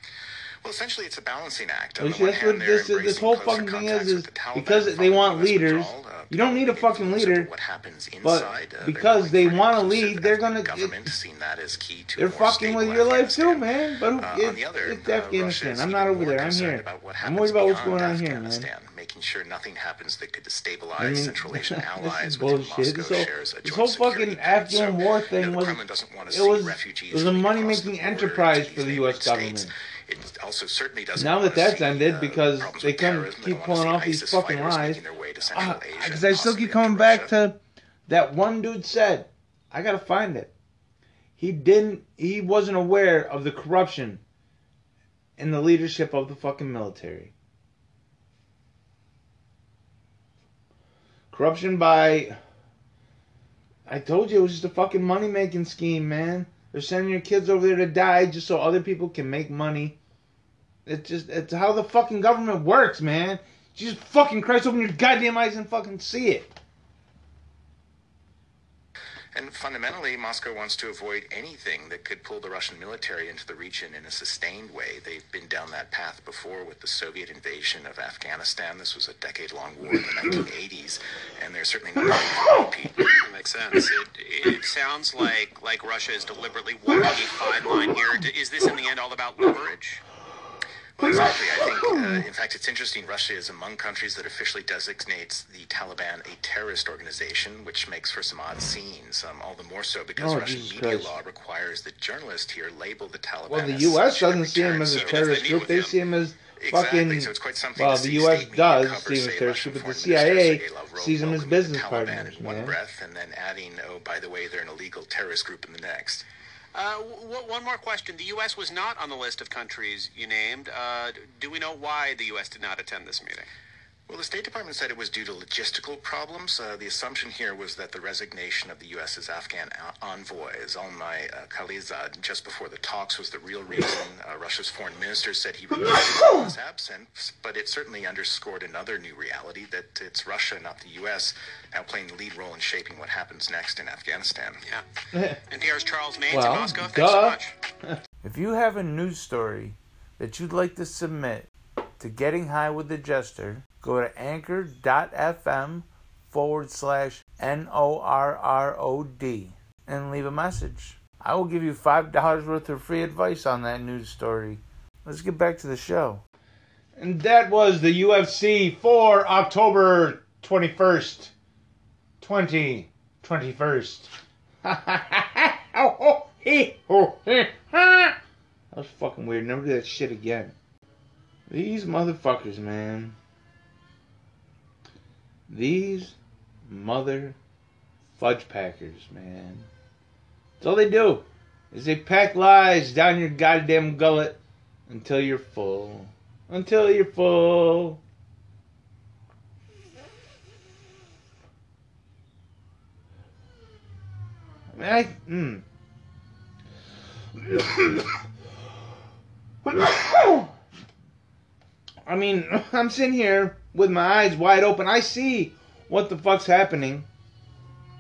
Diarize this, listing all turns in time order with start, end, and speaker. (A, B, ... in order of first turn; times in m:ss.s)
0:00.6-0:37.3 A
0:02.0-0:07.5 B
0:08.2-0:11.1 B
0:12.2-0:18.7 B
0:21.0-0:29.7 B
0:31.2-0:40.5 B
0:41.4-0:44.2 B
0:45.4-0:47.3 B
0:51.3-0:52.4 B
0:53.9-1:00.0 B
1:00.9-1:06.5 B
1:09.3-1:23.0 A
1:23.2-1:30.0 C
1:31.0-1:45.6 A
1:40.2-1:41.2 B
1:43.5-1:52.8 B
1:45.0-1:46.0 C
1:46.6-1:56.2 A
1:56.7-2:03.5 C
2:04.1-2:24.6 A
2:25.1-2:25.4 B
2:25.5-2:27.6 C
2:26.3-2:46.2 B
2:47.0-2:51.3 B
2:52.2-2:54.1 B
2:54.6-2:58.2 B
2:58.7-3:00.6 B
3:01.5-3:03.2 B
3:05.5-3:06.2 B
3:06.7-3:07.4 B
3:08.2-3:09.7 B
3:10.6-3:18.0 B
3:24.7-3:25.6 B
3:27.4-3:28.2 B
3:29.6-3:30.5 B
3:32.0-3:37.1 B